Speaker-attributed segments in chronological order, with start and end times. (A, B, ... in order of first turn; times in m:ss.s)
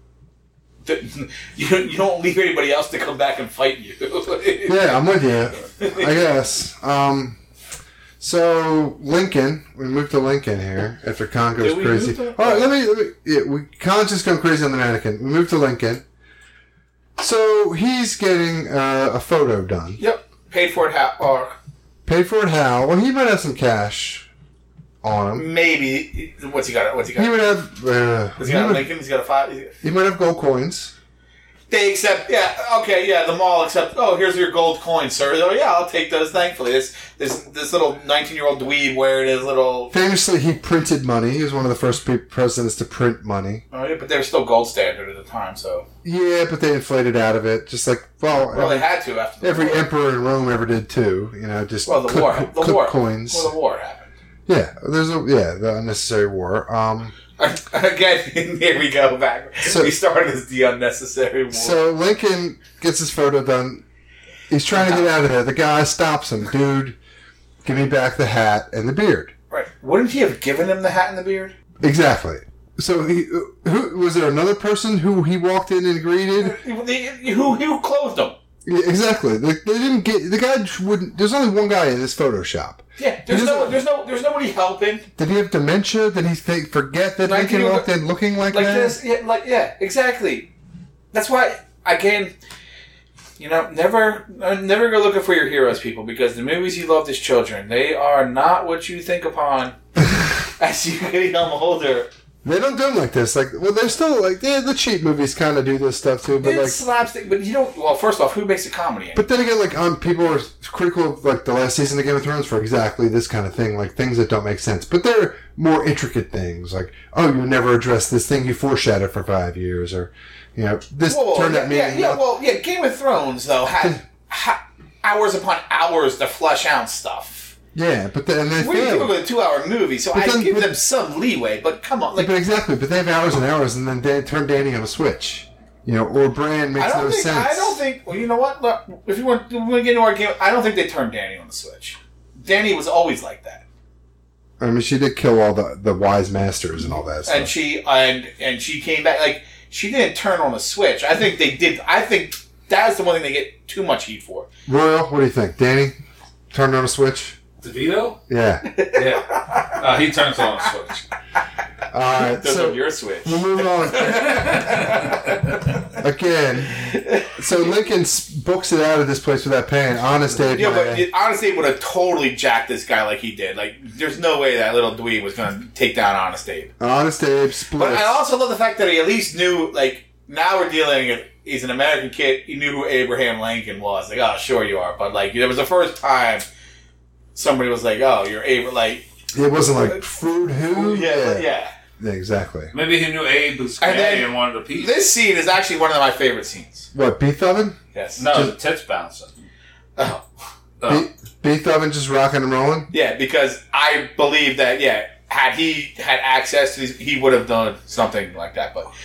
0:00.8-0:05.0 A
0:04.7-0:07.4 B
0:05.8-0:06.3 A
0:08.2-0:16.0 B
0:11.6-0:12.7 A
0:17.2-0:20.0 B
0:20.0-0:21.6 A
0:22.1-0:24.3 B
0:25.0-0:25.5 B
0:25.4-0:27.4 A
0:27.1-0:28.9 B
0:28.4-0:29.7 A
0:29.8-0:30.9 B
0:31.7-0:39.9 A
0:39.9-0:43.6 B
0:43.7-0:45.8 A
0:46.0-0:48.9 B
0:48.5-0:49.9 A
0:49.4-0:53.5 B
0:51.9-0:54.1 A
0:54.5-0:57.2 B
0:57.4-1:01.8 A
0:59.6-0:59.9 B
1:01.5-1:03.8 B
1:04.5-1:07.0 B
1:04.7-1:05.1 A
1:07.6-1:09.3 B
1:09.5-1:11.5 A
1:11.8-1:16.6 B
1:16.4-1:18.4 A
1:18.7-1:23.8 B
1:23.0-1:25.1 A
1:25.2-1:29.0 B
1:27.2-1:27.9 A
1:28.5-1:30.5 A
1:31.1-1:32.3 A
1:33.4-1:39.8 A
1:40.6-1:42.1 A
1:42.4-1:46.8 B
1:46.4-1:49.3 A
1:49.2-2:02.2 B
2:01.0-2:07.6 A
2:03.8-2:04.0 B
2:07.8-2:09.2 B
2:08.6-2:12.3 A
2:10.1-2:10.8 B
2:12.1-2:17.8 B
2:16.8-2:23.6 A
2:24.6-2:27.5 B
2:27.2-2:34.5 A
2:34.7-2:36.0 B
2:36.5-2:37.4 B
2:37.6-2:38.2 C
2:38.3-2:38.6 B
2:38.7-2:39.7 A
2:39.0-2:41.0 C
2:41.9-2:44.4 B
2:42.1-2:45.2 A
2:44.2-2:45.5 C
2:46.0-2:51.1 B
2:46.8-2:47.3 A
2:50.5-2:56.7 A
2:56.8-2:58.2 B
2:57.7-3:06.5 A
3:07.4-3:09.0 A
3:09.3-3:11.5 B
3:09.6-3:10.0 A
3:10.7-3:11.7 A
3:12.0-3:12.7 B
3:12.7-3:15.0 C
3:13.8-3:16.9 A
3:16.9-3:17.8 B
3:17.9-3:18.3 A
3:18.2-3:19.4 C
3:20.0-3:20.2 A
3:20.8-3:21.0 C
3:20.9-3:22.9 B
3:22.9-3:28.9 A